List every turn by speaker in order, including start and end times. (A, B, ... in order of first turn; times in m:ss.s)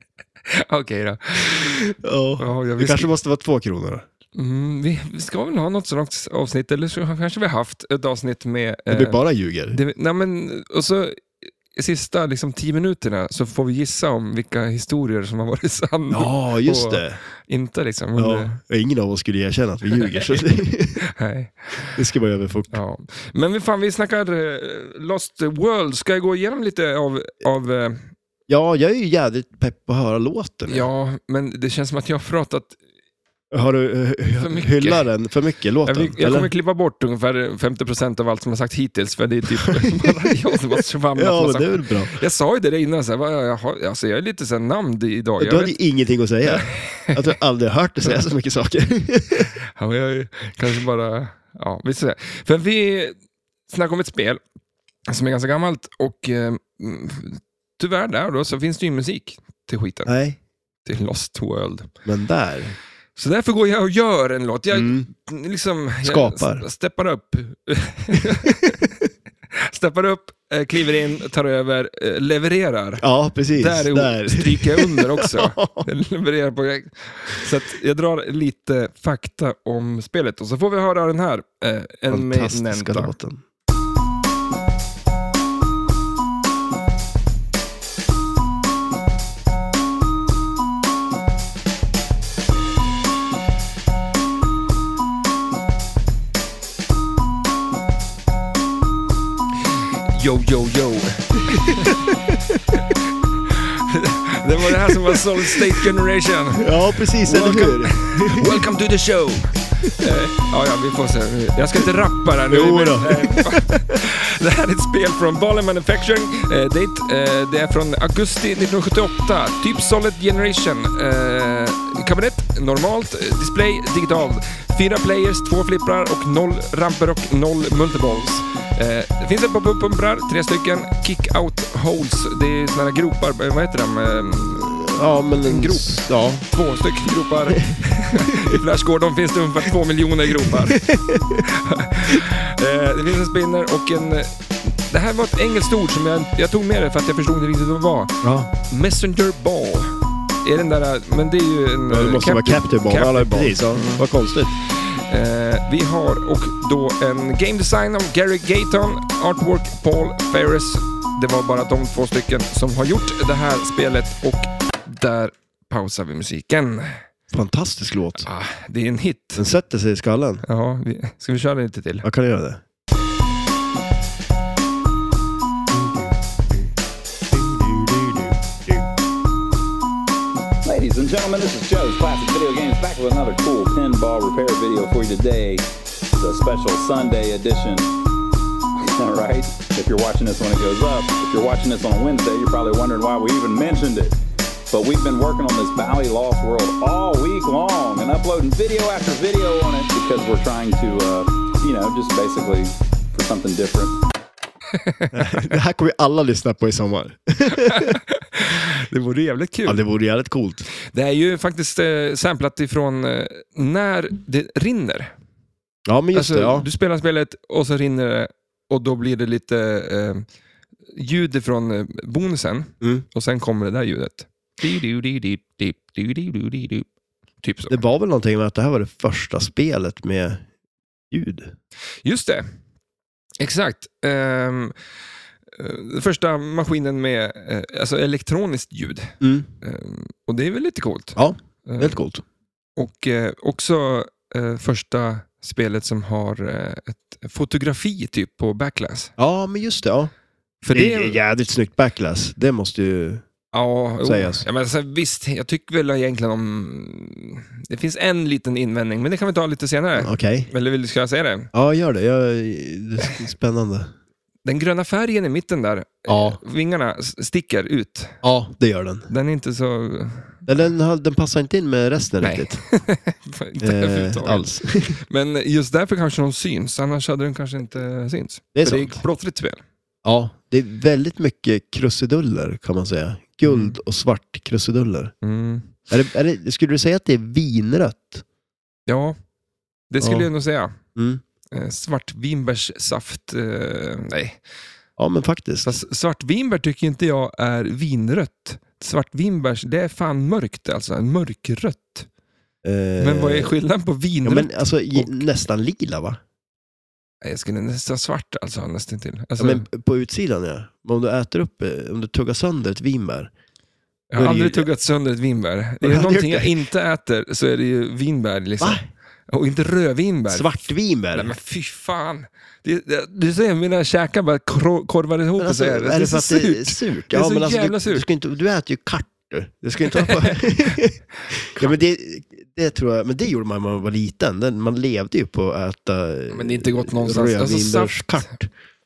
0:00.5-0:01.8 A
0:01.5-0:04.0 B
0:02.4-0:03.1 A
0:04.4-0:09.2 A
0:08.9-0:09.8 B
0:09.7-0:18.6 A
0:16.1-0:17.2 B
0:18.2-0:21.0 B
0:19.9-0:20.4 A
0:21.0-0:22.0 A
0:22.0-0:22.8 B
0:22.7-0:28.1 A
0:28.5-0:30.9 B
0:30.7-0:32.8 A
0:33.5-0:36.5 B
0:34.4-0:35.1 A
0:35.8-0:45.8 A
0:39.7-0:40.3 B
0:41.2-0:42.2 B
0:45.4-0:49.5 B
0:46.4-0:47.3 A
0:49.7-0:53.2 A
0:53.7-0:54.4 A
0:55.1-1:00.1 A
1:00.1-1:00.4 B
1:00.8-1:01.9 A
1:02.0-1:02.8 B
1:03.2-1:09.0 A
1:04.7-1:05.1 B
1:06.0-1:06.6 B
1:09.6-1:23.1 A
1:13.0-1:15.9 B
1:22.1-1:23.4 B
1:40.1-1:42.0 A
1:41.6-1:42.4 B
1:43.5-2:20.8 A
1:44.9-1:45.8 B
1:46.6-1:48.6 B
1:52.5-1:53.7 B
2:14.7-2:16.4 B
2:18.2-2:18.6 B
2:20.4-2:21.4 B
2:21.4-2:34.0 A
2:28.2-2:28.5 B
2:31.9-2:34.5 B
2:34.6-2:47.0 A
2:47.3-2:48.3 B
2:48.2-2:49.4 A
2:49.4-2:50.4 B
2:50.4-2:52.1 A
2:52.0-2:52.6 B
2:55.7-2:56.7 B
2:57.3-2:58.8 B
3:00.6-3:05.6 C
3:06.2-3:07.9 C
3:08.8-3:14.2 C
3:14.7-3:24.0 C
3:24.7-3:25.4 A
3:25.1-3:28.0 B
3:27.5-3:29.8 A
3:29.7-3:30.6 B
3:30.9-3:35.1 A
3:35.9-3:36.7 B
3:36.1-3:40.3 A
3:40.9-3:46.9 A
3:47.4-3:47.8 A
3:47.7-3:50.5 B
3:51.1-3:51.5 B
3:52.0-3:52.4 A
3:53.4-3:54.7 A
3:55.6-4:02.0 A
3:59.2-3:59.5 B
4:01.2-4:02.2 B
4:02.8-4:09.1 A
4:09.2-4:10.1 B
4:10.6-4:11.2 A
4:10.7-4:13.2 B
4:13.5-4:21.5 A
4:14.0-4:14.4 B
4:20.0-4:20.5 B
4:21.5-4:23.9 B
4:24.4-4:28.2 A
4:26.1-4:26.4 B
4:28.2-4:29.1 B
4:29.1-4:30.4 A
4:30.5-4:32.6 B
4:32.2-4:39.6 A
4:33.6-4:35.0 B
4:38.6-4:39.0 B
4:40.0-4:45.1 B
4:43.4-4:43.8 A
4:45.2-4:45.7 A
4:45.9-4:48.2 B
4:48.9-4:49.2 A
4:49.9-4:50.8 A
4:50.0-4:50.3 B
4:51.0-4:51.2 B
4:51.5-4:54.4 A
4:55.0-4:55.8 B
4:55.6-5:02.1 A
5:02.6-5:03.5 B
5:03.0-5:05.2 A
5:04.2-5:06.2 B
5:07.2-5:09.6 A
5:09.4-5:13.3 B
5:14.1-5:20.5 A
5:14.2-5:14.7 B
5:15.8-5:16.5 B
5:18.6-5:18.9 B
5:20.3-5:21.3 B
5:21.1-5:28.1 A
5:25.4-5:38.5 B
5:29.9-5:30.8 A
5:36.3-5:38.3 A